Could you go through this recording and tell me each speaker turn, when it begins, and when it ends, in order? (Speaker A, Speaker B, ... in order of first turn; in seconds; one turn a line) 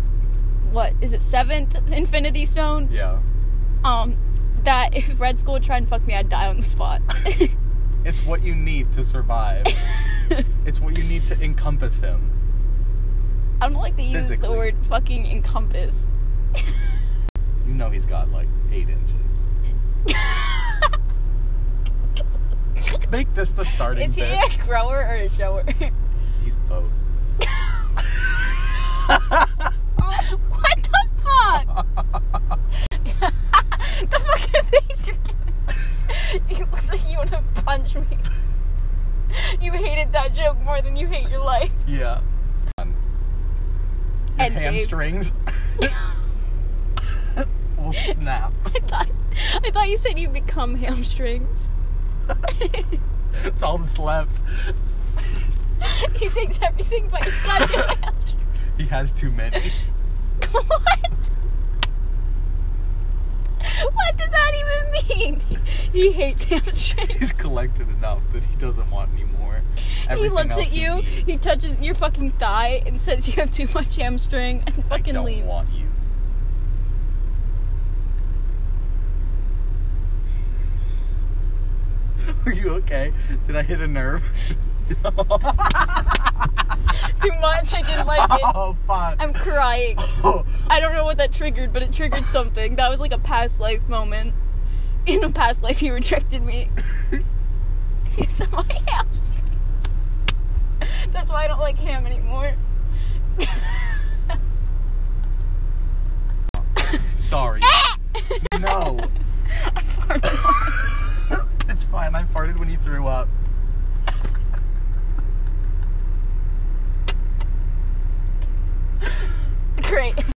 Speaker A: 0.6-2.9
Speaker B: 2.9-3.2
Speaker A: 3.8-7.5
Speaker B: 8.0-9.8
Speaker A: 9.7-10.4
Speaker B: 10.6-12.3
Speaker A: 13.6-16.1
Speaker B: 14.1-14.7
Speaker B: 17.6-19.5
Speaker A: 20.1-20.9
Speaker B: 22.8-24.5
Speaker A: 23.8-25.9
Speaker B: 26.4-26.9
Speaker A: 27.5-27.8
Speaker B: 29.1-29.4
Speaker A: 30.1-31.8
Speaker A: 32.8-38.3
Speaker A: 39.3-41.8
Speaker B: 41.9-43.0
Speaker B: 44.4-46.0
Speaker A: 44.4-45.0
Speaker B: 47.4-48.7
Speaker A: 48.7-51.7
Speaker A: 52.5-53.0
Speaker B: 53.4-54.7
Speaker A: 55.8-58.4
Speaker B: 57.2-58.0
Speaker B: 58.8-59.8
Speaker A: 60.4-61.2
Speaker A: 63.6-67.3
Speaker B: 67.0-71.4
Speaker A: 70.0-75.6
Speaker B: 74.9-76.0
Speaker B: 82.2-86.5
Speaker A: 86.9-88.6
Speaker B: 87.9-89.3
Speaker A: 89.2-90.1
Speaker B: 90.0-90.7
Speaker A: 90.7-94.4
Speaker A: 95.0-96.7
Speaker A: 98.1-99.6
Speaker A: 100.8-102.6
Speaker A: 103.4-104.3
Speaker B: 106.6-107.8
Speaker A: 107.7-110.9
Speaker B: 108.4-109.1
Speaker B: 111.7-113.3
Speaker A: 119.8-120.2